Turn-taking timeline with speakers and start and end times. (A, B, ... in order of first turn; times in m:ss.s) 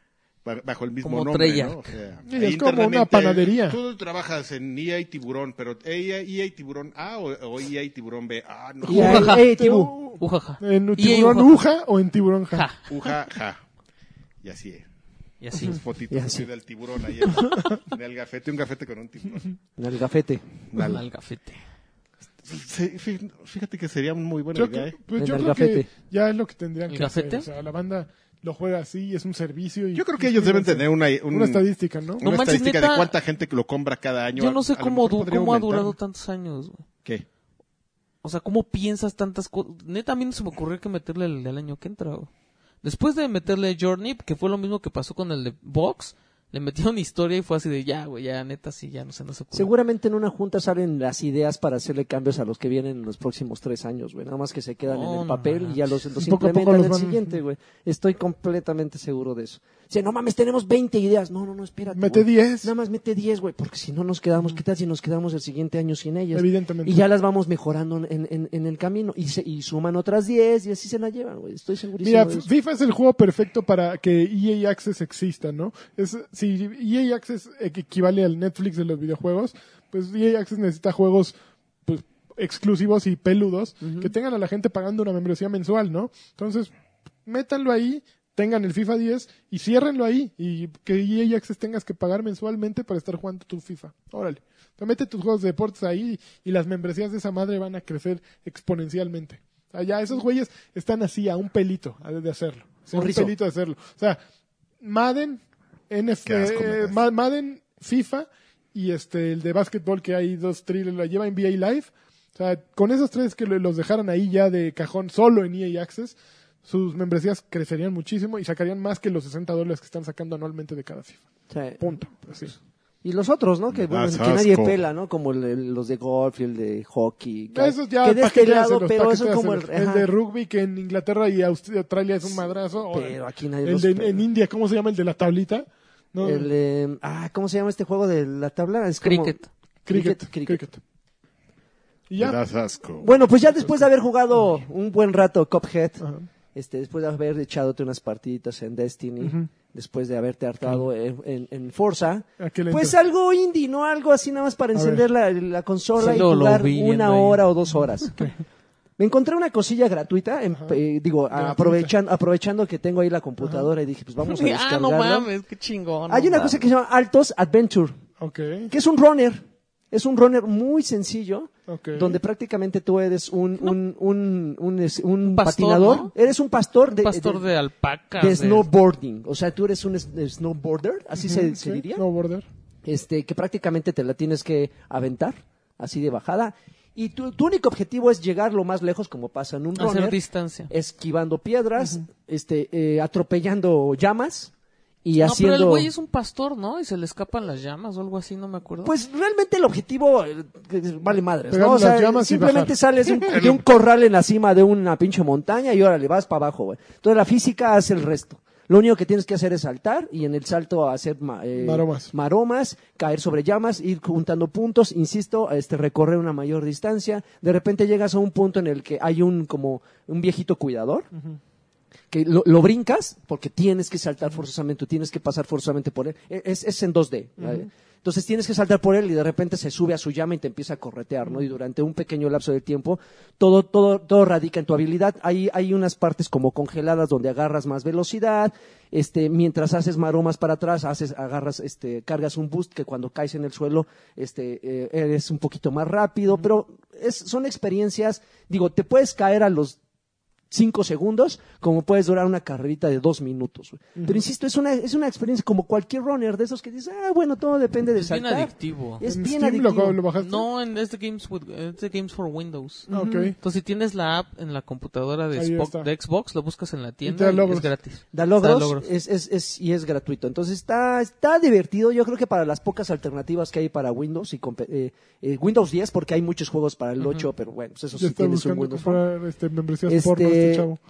0:00.4-0:09.3 A
0:01.0-0:01.9 B
0:02.3-0:03.8 C
0:08.8-0:09.9 D
0:08.9-0:09.5 B
0:08.9-0:12.7 C
0:10.2-0:11.6 B
0:12.5-0:13.1 B
0:12.9-0:13.6 A
0:14.4-0:14.9 A
0:15.4-0:15.8 B
0:15.5-0:19.4 A
0:16.1-0:16.5 D
0:19.8-0:20.5 D
0:20.7-0:21.0 A
0:20.8-0:21.6 B
0:22.4-0:25.0 A
0:24.6-0:32.3 C
0:25.2-0:25.9 D
0:26.9-0:27.5 B
0:29.9-0:31.6 A
0:32.2-0:36.0 A
0:32.2-0:33.1 B
0:34.4-0:36.8 B
0:38.2-0:42.3 B
0:42.8-0:49.7 B
0:49.5-1:12.5 D
0:54.9-0:55.8 B
0:56.2-0:57.4 C
1:01.9-1:02.7 C
1:06.3-1:07.0 C
1:12.0-1:21.4 C
1:21.9-1:26.7 C
1:23.8-1:24.1 D
1:27.2-1:44.2 C
1:42.9-1:43.3 D
1:44.8-2:01.2 C
1:46.3-1:47.0 A
2:01.5-2:01.8 D
2:01.8-2:02.5 C
2:03.0-2:10.1 D
2:03.7-2:04.8 A
2:07.5-2:16.5 C
2:12.9-2:14.2 D
2:16.2-2:19.4 D
2:19.0-2:19.5 B
2:19.9-2:20.8 C
2:19.9-2:20.6 D
2:22.1-2:22.4 C
2:22.2-2:23.2 A
2:23.0-2:26.0 D
2:26.0-2:26.3 C
2:26.6-2:38.3 D
2:29.2-2:29.5 C
2:32.4-2:33.0 C
2:34.7-2:35.0 C
2:36.0-2:37.5 B
2:39.0-2:45.3 D
2:40.5-2:40.8 C
2:41.3-2:41.9 C
2:43.4-2:43.7 C
2:44.2-2:46.6 B
2:46.1-2:48.0 D
2:48.2-2:48.7 C
2:48.7-2:57.4 D
2:51.7-2:52.2 C
2:55.2-2:56.1 B
2:56.9-2:58.7 B
2:58.2-3:02.0 D
3:01.2-3:02.5 C
3:02.8-3:10.2 D
3:09.8-3:10.7 B
3:10.7-3:14.5 D
3:11.8-3:12.0 C
3:15.0-3:15.9 D
3:15.2-3:18.9 B
3:18.8-3:41.1 D
3:21.5-3:22.7 C
3:23.2-3:23.6 A
3:31.6-3:32.1 C
3:42.1-4:09.8 D
3:47.4-3:47.7 C
4:10.5-4:20.0 D
4:14.0-4:14.2 C
4:18.0-4:19.0 B
4:19.1-4:20.5 C
4:20.2-4:28.9 B
4:22.9-4:23.4 C
4:22.9-4:23.3 D
4:25.4-4:25.9 C
4:27.0-4:27.7 C
4:28.1-4:39.0 D
4:38.0-4:40.8 C
4:39.9-4:40.7 D